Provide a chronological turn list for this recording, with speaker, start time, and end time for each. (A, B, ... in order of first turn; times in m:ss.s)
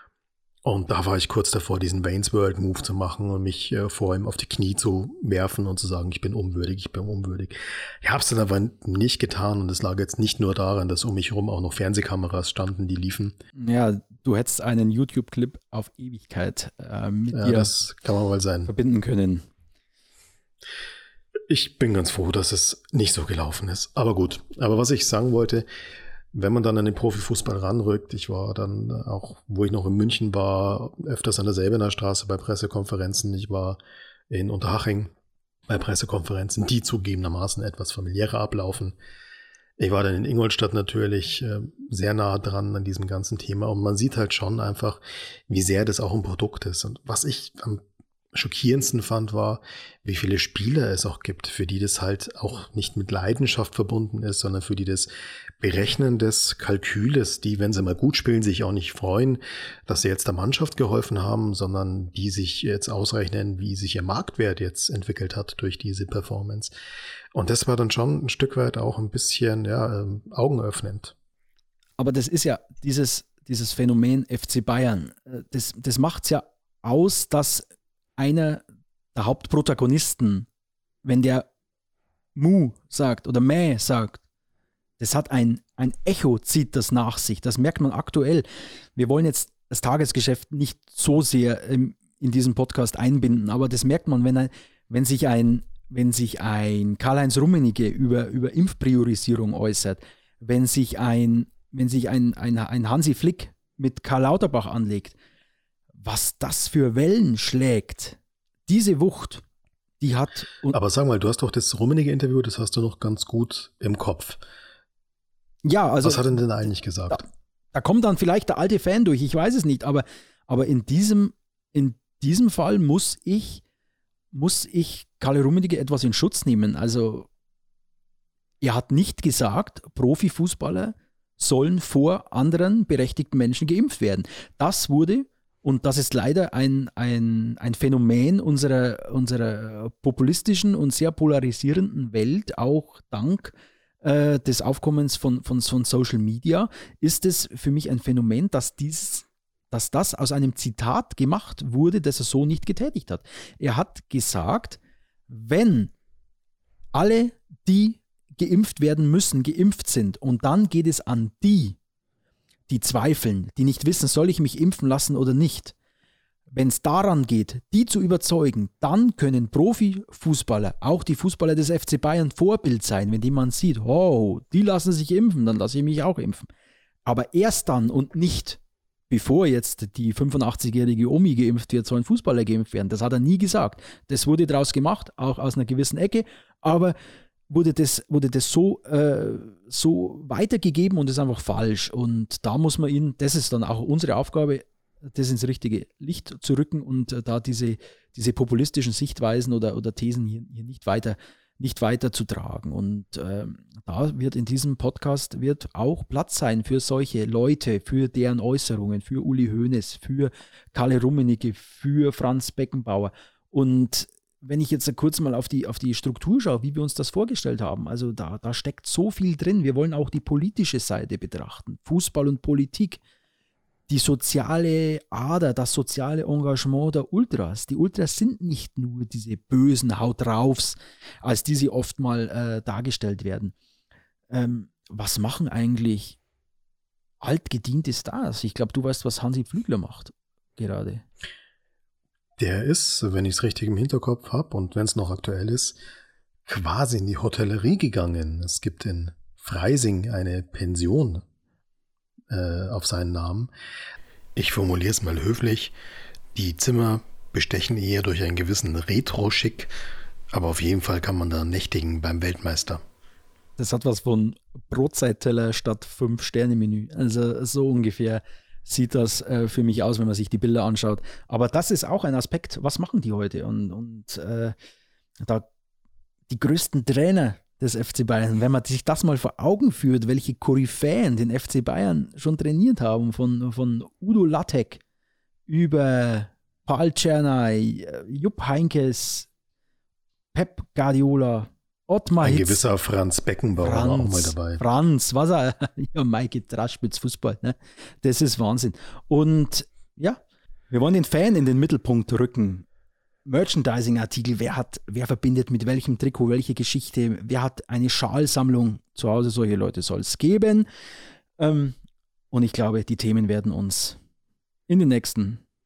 0:00.6-0:13.4 A
0:13.6-0:17.7 B
0:17.3-0:18.7 A
0:18.7-0:19.4 B
0:21.5-0:25.6 A
0:26.3-0:33.8 A
0:34.3-0:35.1 A
0:35.7-0:39.0 A
0:39.8-1:06.7 A
1:07.3-1:11.2 A
1:12.0-1:18.6 B
1:19.2-1:20.5 B
1:21.0-1:21.5 B
1:22.4-1:24.2 B
1:25.0-1:45.2 B
1:46.0-1:49.4 B
1:50.0-1:50.8 B
1:50.7-1:54.4 A
1:55.6-1:56.4 B
1:56.0-1:57.2 A
1:57.1-2:03.6 B
2:04.3-2:07.3 B
2:08.6-2:35.9 B
2:36.9-2:41.8 B
2:42.7-2:45.7 B
2:46.5-2:56.5 B
2:57.0-3:07.0 B
3:07.5-3:43.0 B
3:43.9-3:53.5 B
3:54.3-3:56.2 B
3:57.2-4:01.0 B
4:02.4-4:05.8 A
4:06.5-4:11.2 A
4:12.3-4:13.5 A
4:14.4-4:15.7 A
4:16.4-4:19.7 A
4:20.3-4:22.8 A
4:23.6-4:34.6 B
4:35.2-4:35.5 B
4:36.3-4:44.8 B
4:45.5-4:49.3 B
4:50.3-4:52.6 B
4:52.2-4:54.6 A
4:53.6-5:00.2 B
5:00.7-5:02.7 B
5:03.2-5:10.7 B
5:11.4-5:11.8 B
5:12.3-5:14.0 B
5:14.7-5:15.4 B